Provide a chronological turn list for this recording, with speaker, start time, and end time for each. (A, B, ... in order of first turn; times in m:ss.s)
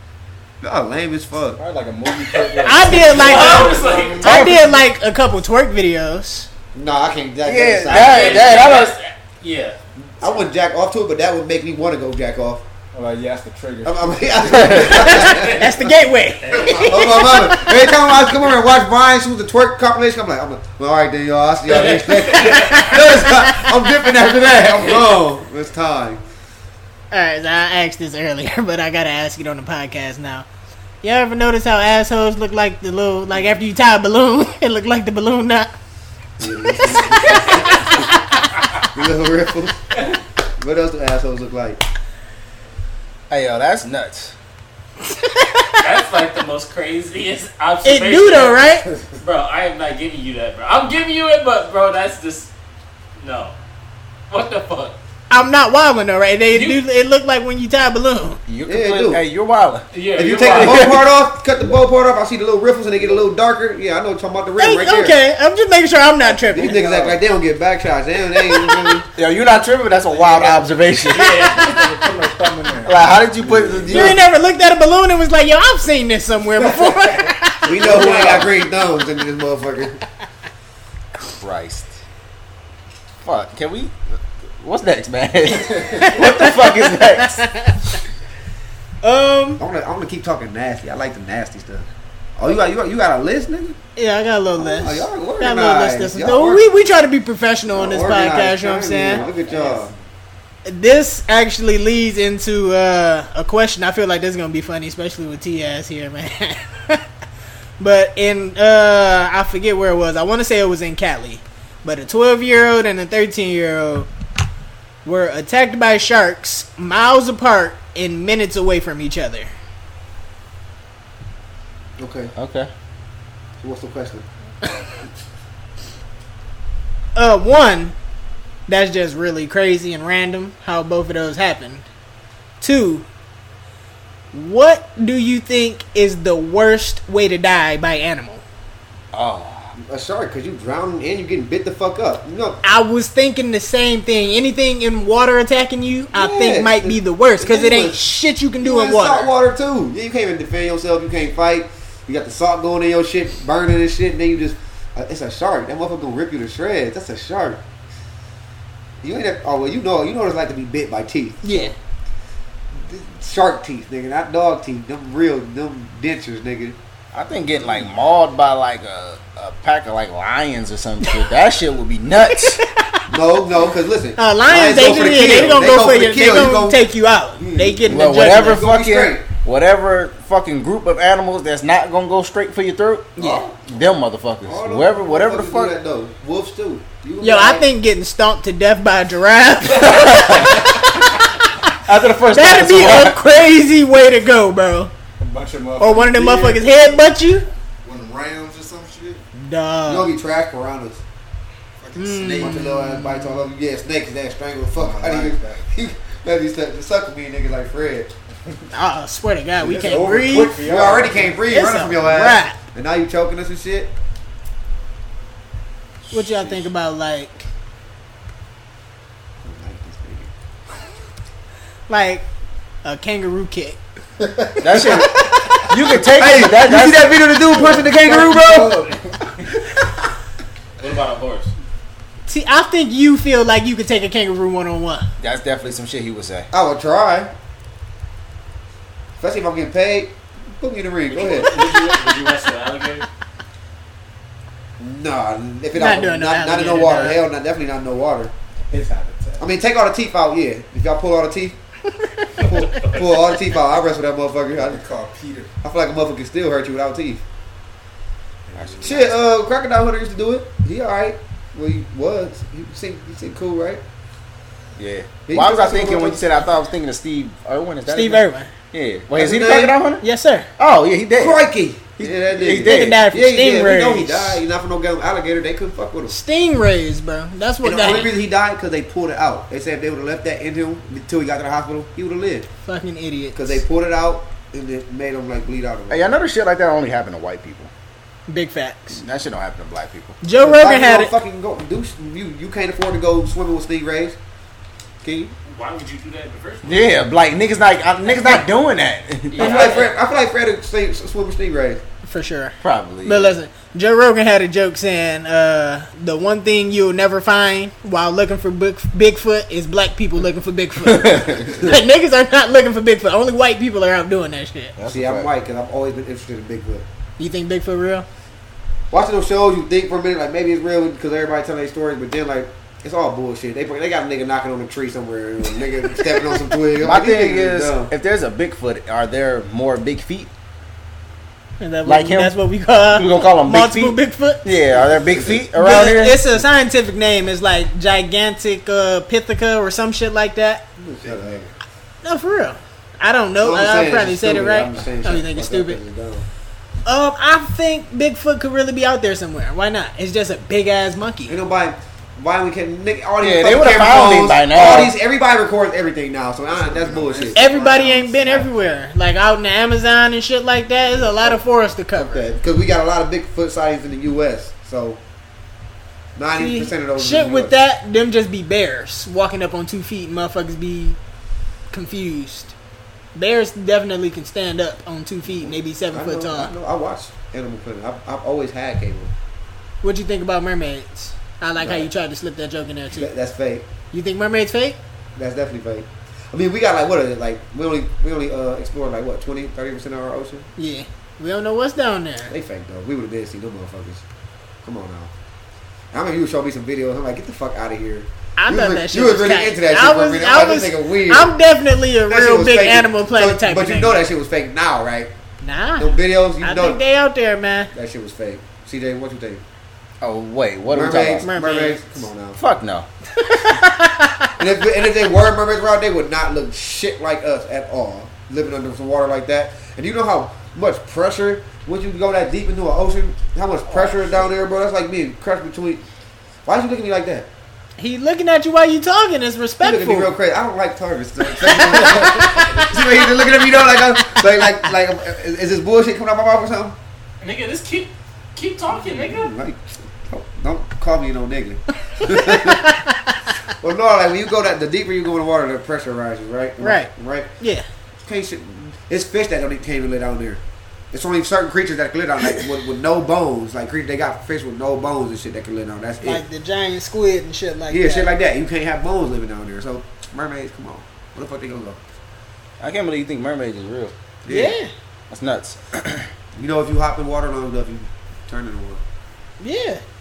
0:00.6-0:01.6 A
0:01.6-0:04.1 B
0:02.2-0:04.3 C
0:02.6-0:06.5 D
0:03.3-0:04.2 A
0:04.2-0:04.8 E
0:06.7-0:08.6 A
0:07.4-0:09.0 E
0:07.9-0:09.8 C
0:10.2-0:12.6 A
0:12.9-0:15.2 B
0:13.8-0:15.9 A
0:14.7-0:18.0 D
0:16.4-0:17.0 C
0:16.5-0:26.2 A
0:22.0-0:22.7 C
0:22.3-0:23.5 D
0:27.1-0:30.5 D
0:31.0-0:35.7 D
0:36.4-0:38.1 A
0:36.8-0:38.1 D
0:38.9-0:39.8 A
0:40.6-0:41.8 A
0:43.3-0:44.4 E
0:45.2-0:45.8 D
0:45.8-0:52.5 C
0:47.8-0:48.9 D
0:53.2-0:53.5 C
0:54.3-0:55.0 C
0:55.3-0:58.4 D
0:56.5-0:56.8 C
0:58.5-0:59.8 E
0:58.7-0:59.2 A
0:59.9-1:01.0 C
1:00.2-1:05.2 A
1:00.4-1:01.1 E
1:03.0-1:03.2 B
1:04.6-1:06.8 D
1:06.5-1:09.1 A
1:06.6-1:07.2 B
1:08.4-1:09.0 D
1:09.2-1:11.4 E
1:10.2-1:10.6 B
1:11.2-1:12.0 D
1:11.3-1:14.1 B
1:12.8-1:14.2 E
1:13.9-1:18.0 D
1:17.6-1:20.0 A
1:17.7-1:18.5 B
1:21.2-1:21.9 E
1:23.2-1:23.9 E
1:24.6-1:27.5 E
1:25.9-1:27.9 D
1:29.0-1:29.6 D
1:29.6-1:33.8 A
1:34.0-1:39.2 D
1:34.6-1:36.6 A
1:37.7-1:39.9 A
1:39.4-1:39.8 B
1:40.7-1:47.0 D
1:47.8-1:54.1 D
1:55.0-1:59.5 D
2:02.0-2:02.3 A
2:02.4-2:02.7 E
2:03.6-2:04.3 A
2:07.2-2:08.0 D
2:08.7-2:11.8 D
2:12.6-2:13.1 D
2:14.3-2:18.4 D
2:19.1-2:19.7 E
2:19.8-2:22.6 A
2:22.6-2:29.3 D
2:26.1-2:28.0 A
2:28.6-2:37.6 A
2:39.0-2:41.7 A
2:41.4-2:41.7 D
2:42.8-2:46.8 A
2:47.1-2:52.6 E
2:52.3-2:53.1 D
2:53.1-2:56.8 A
2:54.2-2:58.7 D
2:57.4-2:59.2 A
2:57.8-3:05.8 E
3:03.2-3:03.4 D
3:03.2-3:03.6 A
3:04.4-3:07.7 A
3:07.2-3:11.7 D
3:09.7-3:10.7 E
3:11.8-3:13.2 E
3:12.3-3:14.9 D
3:15.2-3:16.6 B
3:15.8-3:17.5 D
3:17.8-3:19.2 B
3:19.4-3:20.1 D
3:19.9-3:21.0 A
3:21.8-3:22.8 B
3:22.0-3:23.4 D
3:22.3-3:28.1 A
3:24.8-3:25.7 B
3:28.7-3:30.6 D
3:29.6-3:31.4 B
3:30.5-3:33.9 A
3:31.5-3:32.6 D
3:36.1-3:37.5 D
3:39.4-3:40.3 A
3:41.9-3:42.3 D
3:42.8-3:43.8 D
3:44.2-3:45.0 B
3:44.6-3:47.2 E
3:44.7-3:45.4 A
3:45.9-3:48.9 A
3:47.5-3:49.4 B
3:50.8-3:51.5 C
3:52.3-3:55.1 D
3:55.2-3:56.5 E
3:56.5-3:57.3 A
3:59.2-4:01.7 A
4:01.1-4:03.1 C
4:04.8-4:08.3 A
4:05.8-4:07.2 D
4:08.7-4:09.5 B
4:09.4-4:11.6 A
4:12.0-4:12.5 D
4:12.4-4:14.8 A
4:12.7-4:13.0 C
4:14.5-4:15.5 B
4:15.6-4:17.2 A
4:18.5-4:19.1 B
4:18.6-4:19.0 E
4:18.8-4:23.8 A
4:24.8-4:30.0 E
4:25.3-4:26.3 A
4:27.9-4:28.5 D
4:29.1-4:29.7 A
4:30.0-4:30.5 D
4:30.6-4:31.4 E
4:31.2-4:36.2 A
4:32.0-4:33.0 E
4:32.6-4:34.4 D
4:36.1-4:38.1 D
4:37.6-4:42.5 A
4:42.7-4:43.6 D
4:43.3-4:46.1 A
4:45.9-4:47.7 E
4:48.3-4:49.0 D
4:48.9-4:50.2 E
4:50.2-4:51.1 D
4:50.4-4:54.2 A
4:55.0-4:55.3 A
4:55.5-4:57.0 C
4:56.6-4:59.8 E
4:59.3-4:59.9 C
4:59.4-5:01.8 A
5:02.1-5:14.8 D
5:02.6-5:03.4 E
5:10.8-5:11.7 E
5:14.8-5:15.3 E
5:14.9-5:16.8 A
5:17.2-5:18.1 D
5:18.9-5:27.9 A
5:26.8-5:30.3 E
5:31.6-5:34.4 D
5:31.8-5:32.4 E
5:32.9-5:36.4 E
5:34.7-5:35.4 A
5:35.5-5:40.7 D
5:40.8-5:41.5 A
5:42.0-5:45.8 D
5:43.4-5:46.3 A
5:46.9-5:51.4 D
5:51.3-5:57.5 A
5:53.2-5:55.0 E
5:56.5-5:58.5 B
5:57.3-6:02.3 D
6:02.0-6:05.0 A
6:06.2-6:07.6 A
6:06.4-6:11.0 D
6:11.7-6:12.5 D
6:13.2-6:16.5 D
6:15.4-6:19.1 A
6:19.8-6:23.1 D
6:21.6-6:21.9 A
6:22.9-6:23.7 A
6:23.9-6:24.8 D
6:25.2-6:30.5 A
6:30.6-6:32.3 D
6:32.3-6:34.0 A
6:34.6-6:35.1 A
6:35.9-6:41.4 A
6:38.4-6:44.0 D
6:42.1-6:45.1 A
6:45.4-6:47.7 D
6:45.8-6:46.8 A
6:47.7-6:49.4 A
6:50.0-6:51.3 E
6:50.7-6:52.4 A
6:51.2-6:51.8 D
6:52.4-6:52.9 E
6:53.2-6:54.3 D
6:54.4-7:05.8 A
7:06.5-7:07.3 A
7:07.8-7:10.1 D
7:09.6-7:16.8 A
7:11.4-7:12.6 D
7:17.2-7:19.3 C
7:18.7-7:22.7 A
7:22.0-7:23.2 D
7:23.6-7:27.3 A
7:26.6-7:27.7 D
7:28.0-7:30.4 A
7:30.9-7:36.2 A
7:36.0-7:38.1 D
7:37.7-7:41.8 A
7:42.6-7:43.9 E
7:44.2-7:44.6 A
7:44.3-7:44.7 D
7:45.1-7:46.1 E
7:46.4-7:48.8 A
7:49.4-7:49.8 D